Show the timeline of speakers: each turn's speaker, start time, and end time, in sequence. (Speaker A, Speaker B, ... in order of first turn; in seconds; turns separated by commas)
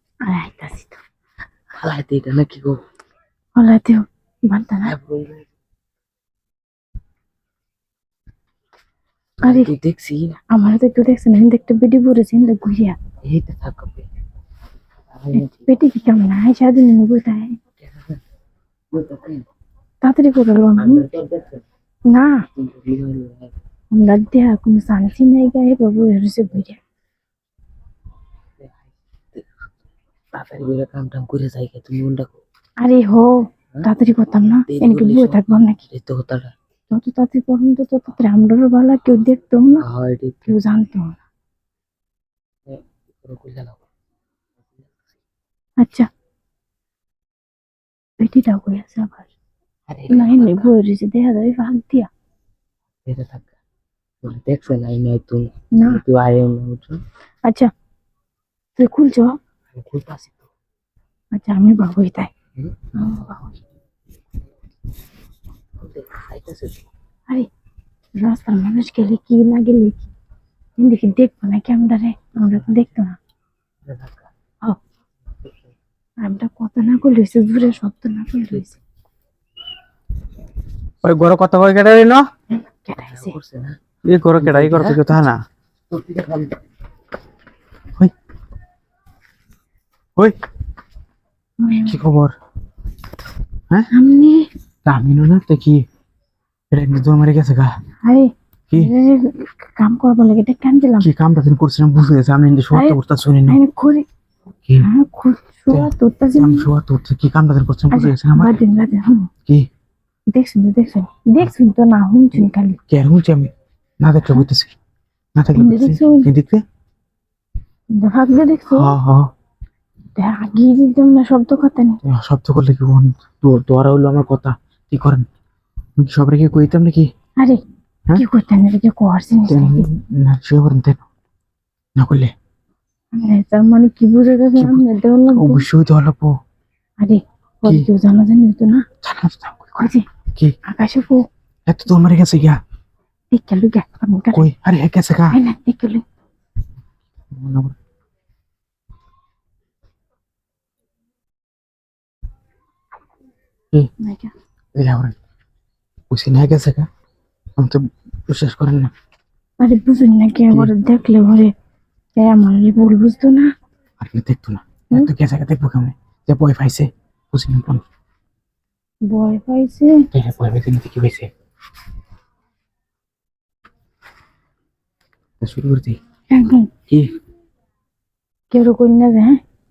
Speaker A: 0.2-1.0, Speaker B: 1.8-2.8, Speaker A: 3.6-4.9, Speaker B: 4.9-5.5, Speaker B: 9.4-10.4, Speaker A: 9.4-9.7, Speaker A: 10.5-13.0, Speaker B: 13.2-14.1, Speaker B: 15.1-15.7, Speaker A: 15.3-17.6, Speaker B: 17.8-18.2, Speaker B: 18.9-19.4, Speaker A: 20.0-21.1, Speaker B: 20.8-21.6, Speaker A: 22.1-22.4, Speaker B: 22.6-23.6, Speaker A: 23.9-26.8, Speaker B: 28.6-29.5, Speaker B: 30.3-32.4, Speaker A: 32.8-33.3, Speaker A: 33.8-35.8, Speaker B: 34.7-36.5, Speaker A: 36.9-39.9, Speaker B: 39.8-40.6, Speaker A: 40.5-41.2, Speaker B: 42.7-43.8, Speaker A: 45.8-46.1, Speaker A: 48.2-49.3, Speaker B: 49.9-50.8, Speaker A: 50.1-52.1, Speaker B: 53.1-53.5, Speaker B: 54.2-57.0, Speaker A: 55.7-56.0, Speaker A: 58.8-59.4, Speaker B: 59.7-60.5, Speaker A: 61.3-62.3, Speaker B: 62.6-63.5, Speaker A: 63.0-63.5, Speaker B: 65.8-66.9, Speaker A: 68.2-70.1, Speaker A: 70.8-73.2, Speaker B: 73.9-74.3, Speaker A: 76.2-78.8, Speaker B: 78.5-78.8, Speaker C: 81.0-82.2, Speaker A: 82.5-83.3, Speaker B: 83.0-83.8, Speaker C: 84.0-85.4, Speaker B: 84.4-85.2, Speaker B: 85.9-86.5, Speaker A: 91.6-92.0, Speaker C: 91.9-92.3, Speaker A: 93.9-94.5, Speaker C: 94.8-95.8, Speaker C: 96.7-97.7, Speaker A: 98.0-101.1, Speaker C: 101.0-103.6, Speaker A: 102.7-104.1, Speaker A: 104.8-106.7, Speaker C: 105.7-108.6, Speaker A: 107.9-109.3, Speaker A: 110.3-112.8, Speaker C: 112.9-114.7, Speaker C: 115.4-116.6, Speaker A: 115.5-116.3, Speaker A: 117.9-119.0, Speaker C: 118.7-119.3, Speaker A: 120.2-122.0, Speaker C: 122.0-125.2, Speaker C: 126.0-127.1, Speaker A: 128.2-129.9, Speaker C: 129.5-131.1, Speaker C: 132.0-132.3, Speaker A: 133.1-135.7, Speaker C: 134.6-136.3, Speaker A: 137.0-138.8, Speaker C: 139.0-140.6, Speaker A: 139.8-140.0, Speaker A: 140.7-141.2, Speaker C: 141.7-142.6, Speaker A: 143.3-144.5, Speaker C: 144.3-145.4, Speaker A: 145.3-146.0, Speaker C: 147.3-147.8, Speaker A: 154.0-154.3, Speaker C: 154.8-155.2, Speaker C: 156.1-156.9, Speaker C: 157.6-158.9, Speaker A: 159.6-161.5, Speaker A: 162.2-163.5, Speaker C: 164.0-167.8, Speaker A: 169.1-170.0, Speaker C: 170.1-171.3, Speaker C: 175.4-176.0, Speaker A: 176.3-176.7, Speaker A: 178.5-179.4